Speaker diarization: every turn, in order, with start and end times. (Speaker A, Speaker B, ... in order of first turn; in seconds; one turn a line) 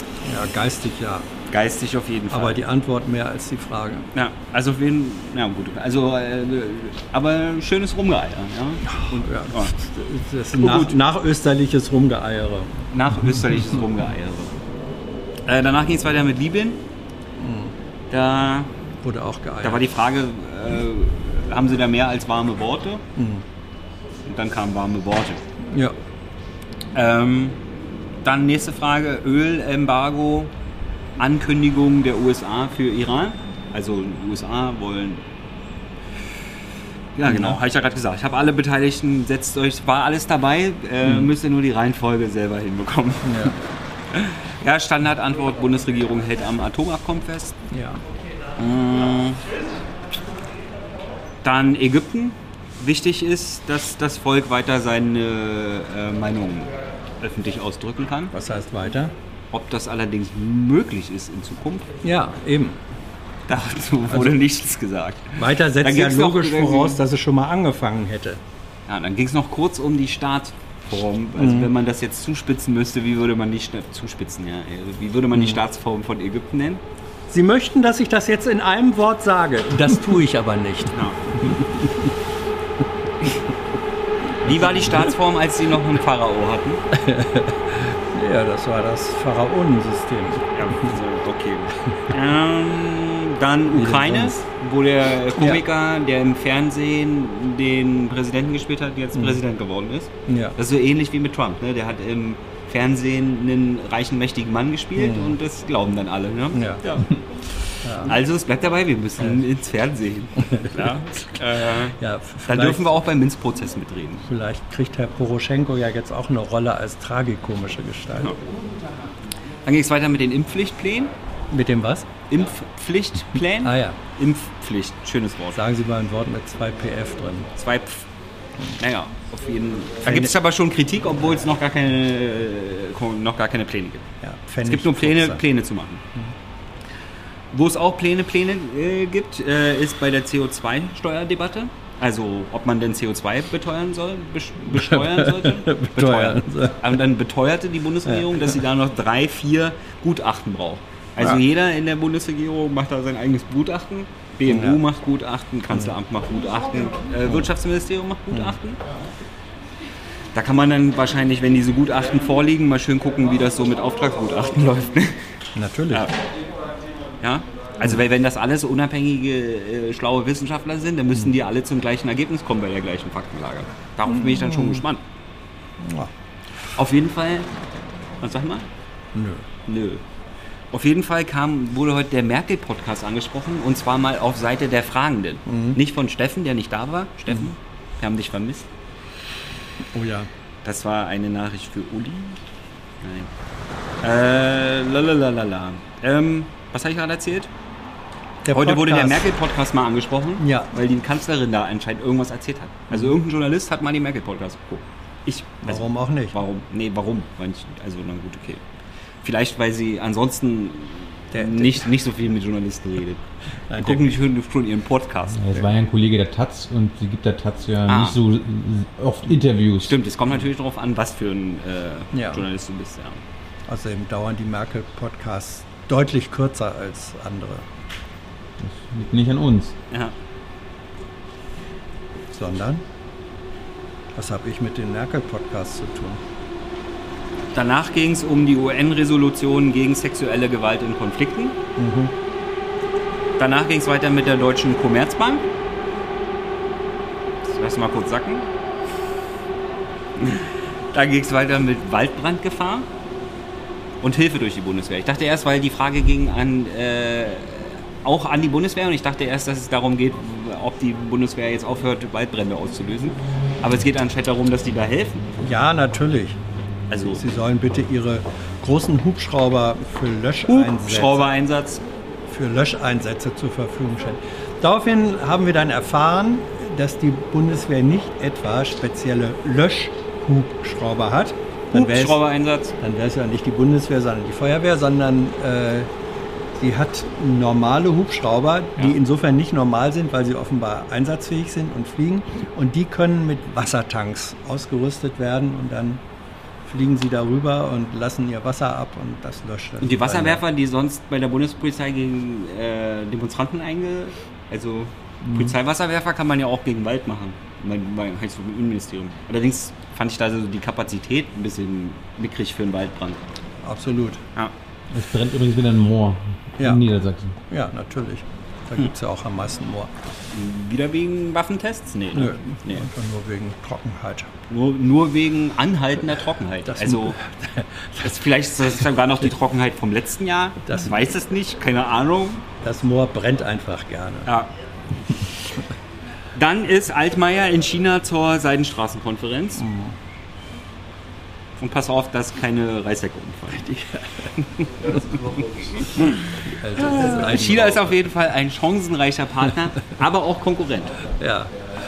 Speaker A: 0.2-1.3
Speaker B: 1.5-2.6
Speaker A: 2.3-4.1
Speaker B: 4.1-9.7
Speaker A: 9.0-12.8
Speaker B: 10.6-11.0
Speaker B: 12.9-14.6
Speaker B: 15.5-16.8
Speaker A: 17.4-17.7
Speaker B: 18.1-18.7
Speaker A: 19.0-19.9
Speaker B: 19.6-23.0
Speaker A: 23.2-23.4
Speaker B: 24.3-25.4
Speaker A: 25.7-25.9
Speaker B: 26.9-27.6
Speaker B: 28.2-30.5
Speaker B: 31.2-35.2
Speaker B: 37.1-43.5
Speaker A: 37.3-37.6
Speaker A: 43.2-43.6
Speaker B: 44.1-47.6
Speaker A: 47.7-48.0
Speaker B: 48.6-49.4
Speaker B: 51.4-58.3
Speaker A: 58.3-59.1
Speaker B: 59.5-61.9
Speaker A: 62.0-62.8
Speaker B: 63.5-67.0
Speaker A: 64.1-64.4
Speaker A: 65.3-68.4
Speaker B: 68.9-76.8
Speaker A: 71.4-71.7
Speaker A: 75.3-75.6
Speaker A: 77.3-81.9
Speaker B: 80.9-81.2
Speaker B: 84.4-86.8
Speaker A: 84.5-84.9
Speaker A: 86.9-91.0
Speaker B: 90.5-107.2
Speaker A: 93.7-94.4
Speaker A: 95.4-95.6
Speaker A: 99.1-99.4
Speaker A: 100.3-100.6
Speaker A: 105.0-105.4
Speaker A: 106.5-106.8
Speaker A: 107.8-108.2
Speaker B: 108.0-114.3
Speaker A: 110.4-111.2
Speaker A: 112.0-112.9
Speaker A: 114.2-118.4
Speaker B: 119.7-121.1
Speaker A: 121.5-122.1
Speaker B: 122.3-125.6
Speaker A: 123.6-124.0
Speaker A: 125.5-127.5
Speaker B: 127.6-128.1
Speaker B: 128.8-134.1
Speaker A: 130.1-130.3
Speaker A: 134.2-135.4
Speaker B: 134.7-136.0
Speaker B: 137.5-158.8
Speaker A: 144.7-147.0
Speaker A: 148.1-148.6
Speaker A: 154.5-154.8
Speaker B: 160.3-165.2
Speaker A: 165.6-166.1
Speaker B: 167.2-175.0
Speaker A: 174.1-174.8
Speaker A: 175.8-176.1
Speaker B: 176.8-177.5
Speaker B: 178.2-178.7
Speaker A: 179.2-179.4
Speaker B: 179.7-180.0
Speaker B: 180.7-188.7
Speaker A: 185.5-185.8
Speaker A: 189.9-190.3
Speaker B: 190.6-192.4
Speaker B: 193.0-193.3
Speaker B: 194.0-197.5
Speaker A: 198.4-199.3
Speaker B: 198.5-208.6
Speaker A: 200.4-200.7
Speaker A: 205.6-206.3
Speaker B: 209.2-213.2
Speaker A: 211.3-211.9
Speaker A: 213.7-214.1
Speaker B: 213.8-215.4
Speaker C: 215.3-219.9
Speaker B: 217.9-218.2
Speaker B: 219.8-223.2
Speaker A: 222.1-222.5
Speaker A: 223.7-227.7
Speaker C: 228.6-229.7
Speaker A: 232.3-232.8
Speaker A: 234.2-236.2
Speaker B: 237.5-241.6
Speaker A: 241.8-242.1
Speaker B: 243.4-245.5
Speaker B: 247.4-248.5
Speaker B: 250.2-252.9
Speaker B: 254.0-265.2
Speaker A: 265.4-266.4
Speaker B: 266.9-267.2
Speaker A: 267.1-271.3
Speaker B: 270.5-271.9
Speaker A: 272.3-282.2
Speaker B: 281.7-282.8
Speaker A: 282.8-285.9
Speaker A: 286.6-296.0
Speaker A: 296.7-300.4
Speaker B: 299.8-313.2
Speaker A: 313.6-314.2
Speaker C: 314.9-317.4
Speaker A: 316.6-316.8
Speaker A: 317.5-319.9
Speaker B: 320.3-322.9
Speaker A: 322.1-324.3
Speaker B: 324.5-327.2
Speaker A: 326.7-328.1
Speaker B: 328.0-332.4
Speaker A: 330.7-331.0
Speaker A: 332.6-334.3
Speaker B: 334.3-334.5
Speaker B: 336.4-339.6
Speaker A: 339.6-339.9
Speaker B: 341.6-343.7
Speaker A: 343.5-344.3
Speaker B: 344.6-346.2
Speaker A: 346.4-348.0
Speaker B: 346.8-351.0
Speaker A: 351.2-351.5